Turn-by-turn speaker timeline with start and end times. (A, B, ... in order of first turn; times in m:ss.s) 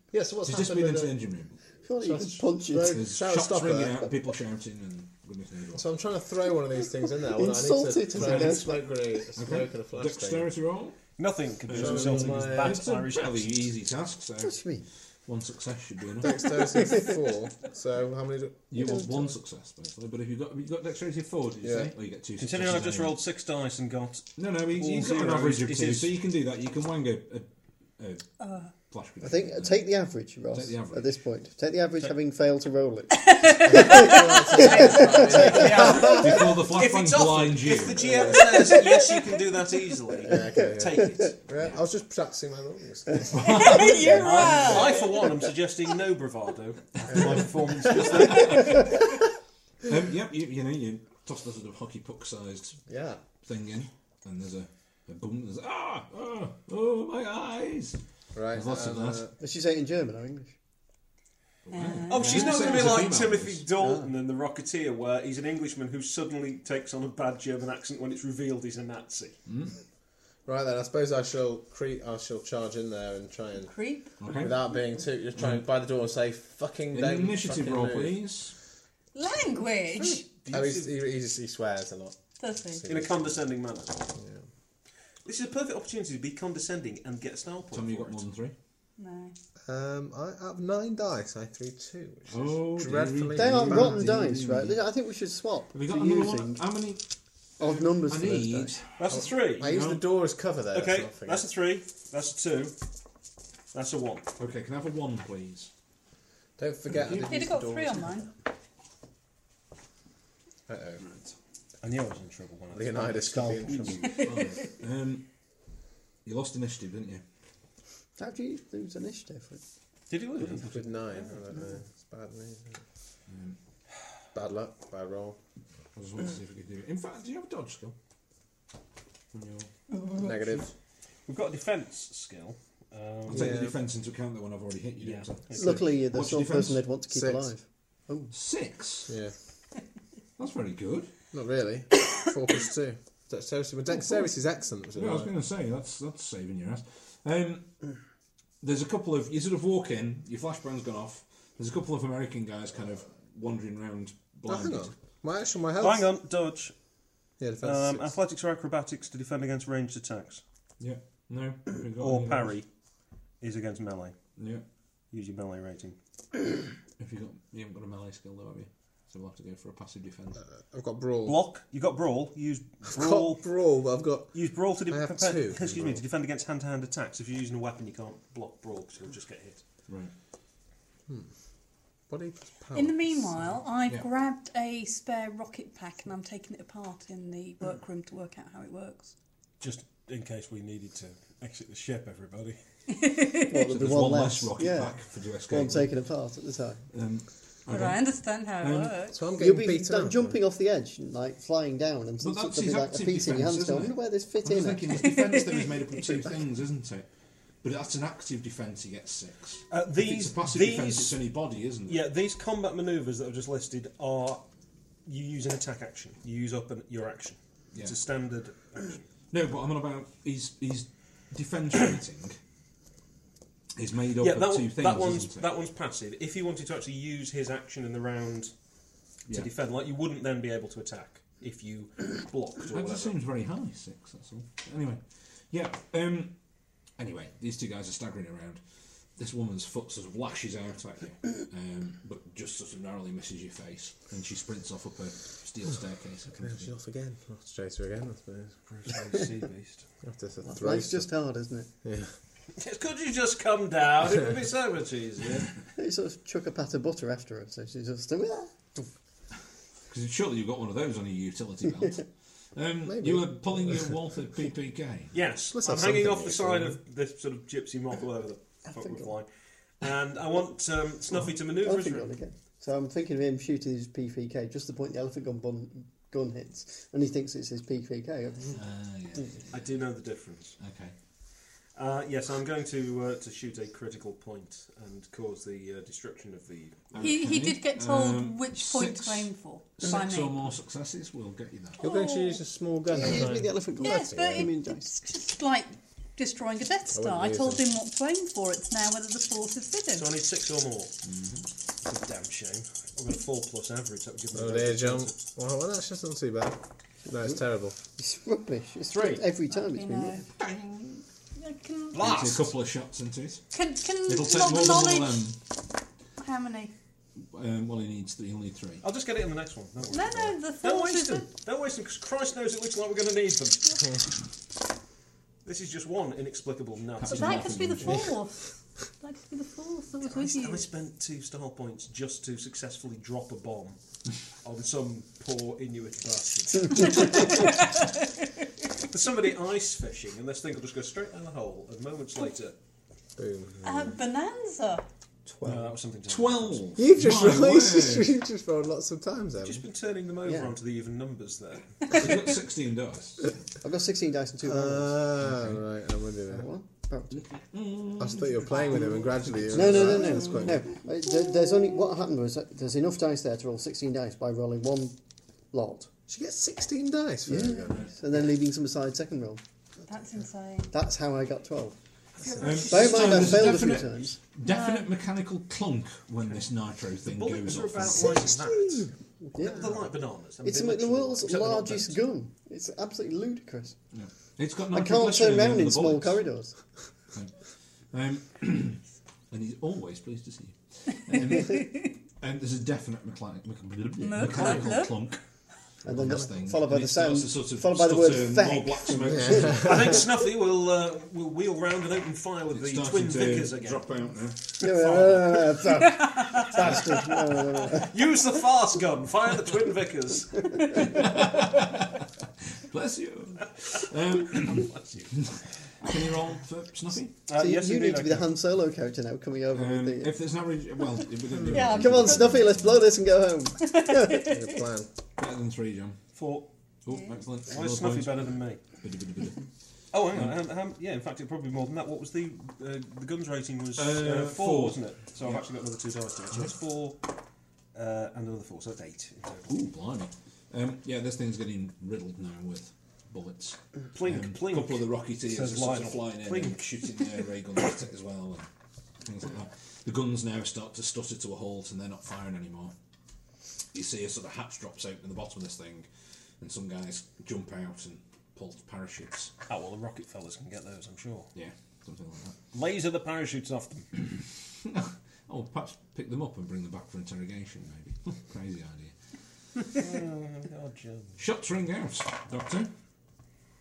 0:00.1-0:01.1 A
0:00.4-0:01.6 B
0:01.8-0:03.1 C
0:02.0-0:04.1 A
0:02.8-0:05.9 B
0:05.7-0:10.5 A
0:07.2-0:08.7 C
0:08.1-0:08.7 B
0:09.4-0:11.0 B
0:11.2-0:13.6 D
0:11.7-0:14.7 B
0:11.7-0:12.8 A
0:14.4-0:14.8 C
0:15.2-0:16.6 B
0:16.2-0:18.7 A
0:16.7-0:17.0 C
0:18.7-0:23.2 B
0:18.8-0:19.1 C
0:21.6-0:21.9 A
0:22.4-0:26.1 D
0:24.4-0:27.5 B
0:28.0-0:28.3 B
0:28.4-0:28.7 E
0:28.9-0:29.9 B
0:29.2-0:35.9 C
0:30.5-0:31.1 B
0:33.2-0:34.7 E
0:33.6-0:36.3 A
0:34.6-0:41.4 D
0:36.0-0:38.2 B
0:37.9-0:38.4 A
0:38.6-0:39.3 E
0:40.2-0:43.4 A
0:40.4-0:40.7 C
0:43.3-0:45.0 B
0:43.4-0:45.3 E
0:44.2-0:48.8 D
0:47.1-0:47.4 A
0:48.3-0:48.8 B
0:49.8-0:52.8 B
0:52.9-0:53.2 A
0:53.4-0:58.0 B
0:58.3-0:59.3 A
0:58.5-0:59.3 B
0:59.4-1:00.5 C
1:01.6-1:03.7 B
1:01.7-1:03.1 E
1:02.1-1:09.4 D
1:03.8-1:04.1 C
1:09.4-1:09.7 B
1:10.4-1:13.7 A
1:13.6-1:14.1 E
1:14.2-1:14.6 B
1:14.3-1:18.2 A
1:15.4-1:15.6 B
1:16.9-1:18.5 B
1:19.1-1:20.3 E
1:19.9-1:20.9 D
1:20.5-1:23.3 A
1:22.4-1:22.9 E
1:22.8-1:24.1 D
1:24.1-1:24.4 A
1:25.2-1:28.2 D
1:27.7-1:28.5 B
1:29.0-1:29.3 E
1:29.6-1:34.2 A
1:32.3-1:34.8 B
1:33.3-1:36.6 C
1:35.7-1:37.0 B
1:37.6-1:38.8 C
1:37.6-1:38.9 B
1:39.0-1:39.8 D
1:39.1-1:41.4 A
1:39.6-1:40.0 B
1:40.7-1:42.7 D
1:43.7-1:44.2 D
1:44.4-1:45.7 B
1:46.6-1:48.2 A
1:47.0-1:47.3 B
1:47.1-1:48.3 E
1:50.7-1:51.0 A
1:51.8-1:54.0 D
1:52.7-1:54.2 A
1:54.1-1:55.2 B
1:56.2-1:57.2 B
1:58.2-1:59.6 C
2:00.1-2:01.4 D
2:00.4-2:02.8 A
2:03.3-2:03.6 B
2:04.3-2:05.4 A
2:05.9-2:07.9 B
2:09.3-2:09.7 B
2:10.2-2:10.7 A
2:11.2-2:13.7 D
2:13.3-2:16.9 B
2:13.3-2:13.7 A
2:15.0-2:15.8 D
2:15.6-2:18.3 C
2:17.1-2:17.5 A
2:18.3-2:19.1 B
2:19.1-2:19.3 A
2:20.4-2:21.1 B
2:21.3-2:25.3 A
2:25.0-2:27.7 B
2:28.6-2:34.9 B
2:34.5-2:36.1 A
2:35.8-2:36.7 D
2:37.4-2:38.1 A
2:37.6-2:40.4 D
2:40.8-2:42.5 B
2:42.0-2:42.7 D
2:43.4-2:44.2 D
2:44.4-2:44.6 B
2:45.1-2:46.0 D
2:47.0-2:50.4 B
2:50.6-2:51.4 A
2:51.2-2:53.4 D
2:52.8-2:54.3 A
2:54.3-2:59.6 D
2:54.9-2:56.0 A
3:02.1-3:03.0 A
3:02.7-3:09.1 E
3:09.6-3:12.6 D
3:12.9-3:13.7 E
3:13.5-3:16.8 C
3:13.7-3:15.9 B
3:16.9-3:19.0 B
3:17.7-3:19.3 E
3:19.1-3:20.4 A
3:19.4-3:25.1 C
3:22.2-3:27.1 B
3:25.0-3:25.6 E
3:27.6-3:32.0 B
3:29.7-3:31.2 D
3:31.8-3:34.4 D
3:35.0-3:39.0 D
3:39.3-3:42.4 B
3:43.8-3:45.5 B
3:44.2-3:48.5 D
3:49.3-3:53.1 D
3:52.7-3:56.3 B
3:57.0-3:58.6 B
3:59.2-4:06.7 B
4:06.4-4:08.5 A
4:08.6-4:09.8 D
4:10.0-4:11.1 A
4:10.4-4:11.7 C
4:11.8-4:12.1 A
4:12.6-4:15.5 D
4:15.8-4:18.8 C
4:19.9-4:25.1 B
4:22.9-4:23.8 A
4:25.1-4:29.3 D
4:25.5-4:26.8 A
4:29.8-4:32.1 D
4:31.6-4:38.5 C
4:38.5-4:39.7 B
4:39.5-4:40.6 D
4:40.6-4:40.9 B
4:41.7-4:47.0 D
4:46.9-4:51.8 B
4:47.0-4:50.5 E
4:51.8-4:52.4 E
4:51.8-4:54.5 A
4:52.9-4:54.9 C
4:53.8-5:00.1 E
4:56.9-4:57.6 A
4:59.9-5:00.9 D
5:01.0-5:01.4 B
5:01.8-5:05.2 D
5:04.3-5:07.8 A
5:08.0-5:10.2 C
5:08.9-5:09.2 D
5:09.5-5:10.3 E
5:10.4-5:11.0 B
5:11.4-5:12.1 E
5:11.9-5:12.5 D
5:11.9-5:13.5 B
5:13.5-5:15.3 E
5:14.0-5:15.4 B
5:16.2-5:16.7 E
5:17.2-5:18.8 B
5:18.8-5:23.8 D
5:19.9-5:21.3 E
5:25.4-5:27.6 D
5:27.0-5:28.1 B
5:27.0-5:30.6 E
5:30.0-5:33.8 D
5:34.4-5:37.6 D
5:38.9-5:42.5 D
5:43.2-5:43.9 A
5:43.6-5:44.8 E
5:45.4-5:46.6 D
5:46.1-5:48.1 B
5:46.8-5:49.6 A
5:49.4-5:51.8 D
5:51.9-5:53.3 B
5:53.6-5:55.0 C
5:54.4-5:56.5 A
5:55.2-5:55.6 B
5:56.3-5:57.2 C
5:57.1-6:00.6 B
5:58.0-6:00.6 A
5:59.5-6:05.0 C
6:01.2-6:01.7 E
6:05.5-6:05.9 C
6:06.1-6:07.8 A
6:07.3-6:09.4 C
6:09.8-6:10.7 E
6:10.7-6:11.8 C
6:12.1-6:13.8 D
6:12.4-6:18.3 B
6:12.6-6:14.2 C
6:14.4-6:14.9 E
6:17.0-6:22.0 D
6:18.0-6:18.8 A
6:19.3-6:19.8 C
6:20.4-6:23.8 C
6:23.9-6:26.2 B
6:24.7-6:26.5 C
6:27.9-6:35.2 B
6:31.3-6:31.8 E
6:34.0-6:35.0 E
6:35.8-6:39.7 C
6:35.8-6:39.9 B
6:39.1-6:39.7 A
6:39.5-6:43.8 D
6:42.5-6:44.6 B
6:44.6-6:45.5 D
6:44.6-6:47.9 C
6:46.5-6:50.8 D
6:50.8-6:52.0 B
6:52.7-6:57.1 B
6:54.3-6:55.2 D
6:57.3-6:58.3 D
6:57.3-7:00.1 C
6:59.5-7:02.9 B
7:01.5-7:02.2 E
7:01.5-7:04.3 C
7:03.6-7:04.6 E
7:04.2-7:04.9 A
7:05.2-7:06.0 B
7:06.1-7:06.5 D
7:06.8-7:09.4 B
7:07.5-7:08.6 D
7:09.9-7:17.0 D
7:10.1-7:10.4 B
7:13.8-7:15.4 B
7:17.7-7:19.6 D
7:19.5-7:28.5 B
7:23.9-7:26.6 D
7:29.0-7:32.7 B
7:33.7-7:35.9 B
7:36.4-7:39.3 B
7:39.5-7:41.3 D
7:41.3-7:42.4 B
7:42.5-7:43.9 D
7:44.6-7:48.9 B
7:49.7-7:51.2 D
7:51.2-7:52.7 B